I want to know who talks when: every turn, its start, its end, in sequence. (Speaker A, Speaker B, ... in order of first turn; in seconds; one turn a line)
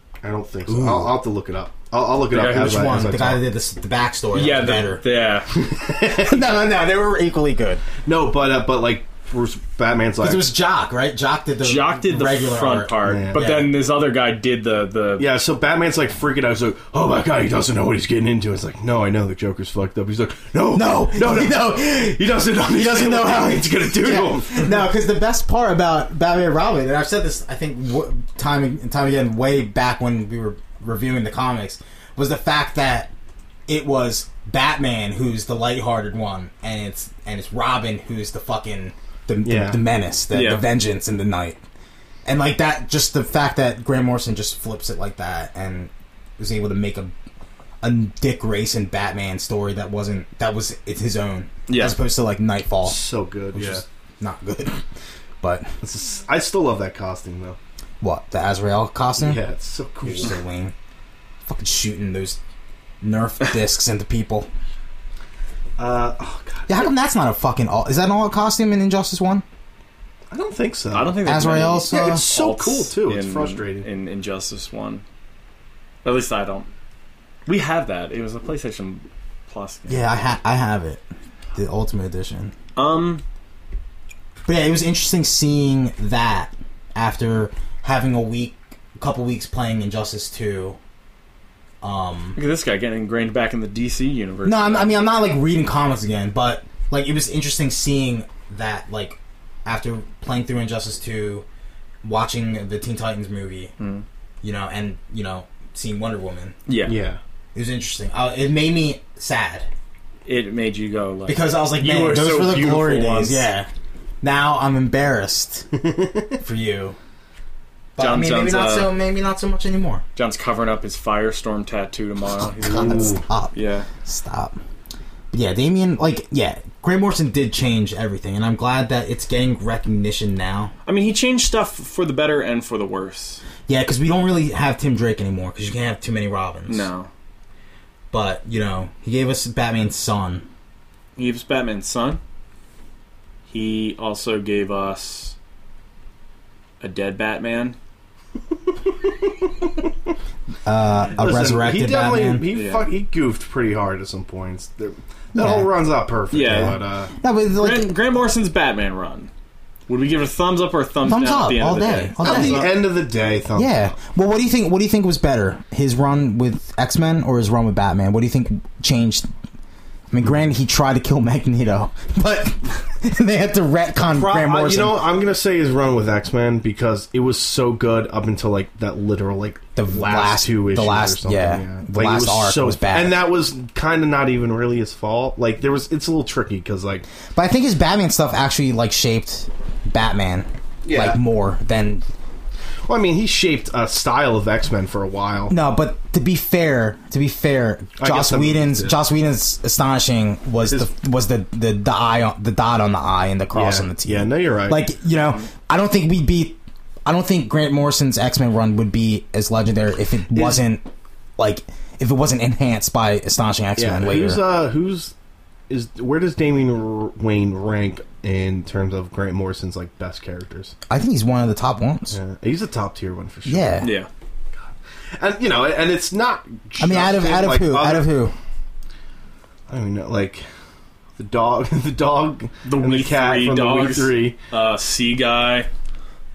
Speaker A: 0.2-3.4
Speaker B: 0.7-1.2
Speaker C: 2.3-2.9
Speaker B: 2.4-5.0
Speaker C: 4.3-5.5
Speaker A: 5.5-6.5
Speaker B: 6.2-7.8
Speaker A: 8.1-10.5
Speaker B: 10.2-13.7
Speaker C: 11.6-15.3
Speaker A: 13.0-13.4
Speaker A: 15.2-24.8
Speaker B: 20.7-33.1
Speaker B: 33.7-41.6
Speaker A: 39.4-39.8
Speaker C: 40.3-40.7
Speaker B: 42.3-47.1
Speaker B: 47.8-54.8
Speaker C: 51.7-52.0
Speaker A: 52.8-53.8
Speaker B: 55.4-55.7
Speaker A: 55.8-57.6
Speaker B: 58.0-59.4
Speaker A: 59.2-60.4
Speaker B: 60.0-60.7
Speaker B: 61.5-62.4
Speaker B: 63.0-64.5
Speaker A: 65.8-66.9
Speaker B: 66.7-69.4
Speaker A: 70.3-71.2
Speaker C: 70.9-75.0
Speaker B: 71.2-72.2
Speaker A: 71.9-73.9
Speaker C: 76.0-76.7
Speaker C: 77.5-80.0
Speaker B: 79.9-81.0
Speaker B: 81.5-82.5
Speaker C: 82.8-83.2
Speaker B: 84.5-90.8
Speaker B: 91.8-92.4
Speaker C: 92.4-95.0
Speaker B: 94.5-101.5
Speaker B: 102.0-103.7
Speaker C: 103.8-104.0
Speaker B: 104.4-106.6
Speaker C: 106.7-107.0
Speaker A: 106.9-107.2
Speaker B: 107.5-109.7
Speaker C: 110.3-113.5
Speaker B: 111.3-113.7
Speaker B: 114.2-115.7
Speaker A: 115.8-116.3
Speaker B: 116.4-117.0
Speaker B: 118.0-120.0
Speaker C: 118.0-118.9
Speaker C: 120.2-123.9
Speaker B: 122.6-124.6
Speaker A: 122.6-123.2
Speaker B: 125.3-130.7
Speaker C: 130.9-133.4
Speaker B: 133.7-136.9
Speaker C: 136.7-137.1
Speaker B: 138.1-140.5
Speaker C: 141.2-142.2
Speaker C: 143.5-145.3
Speaker C: 146.8-147.8
Speaker B: 150.7-152.5
Speaker A: 151.2-157.1
Speaker C: 152.5-152.9
Speaker B: 155.3-155.7
Speaker C: 156.3-156.8
Speaker B: 156.5-158.0
Speaker C: 157.6-159.3
Speaker C: 159.9-162.7
Speaker B: 161.0-162.9
Speaker A: 162.2-163.9
Speaker B: 163.6-169.3
Speaker B: 170.1-175.0
Speaker A: 174.1-187.1
Speaker B: 179.8-183.2
Speaker B: 187.3-192.1
Speaker A: 190.8-191.2
Speaker A: 192.9-195.6
Speaker B: 195.5-210.8
Speaker A: 198.0-199.0
Speaker A: 203.5-204.8
Speaker A: 210.3-210.6
Speaker B: 211.4-214.4
Speaker A: 213.8-215.1
Speaker A: 215.7-220.7
Speaker B: 220.9-222.2
Speaker A: 222.1-223.9
Speaker B: 223.5-223.9
Speaker C: 223.8-224.1
Speaker A: 224.6-228.1
Speaker B: 226.8-228.3
Speaker A: 229.7-230.4
Speaker A: 231.2-234.4
Speaker C: 232.6-235.7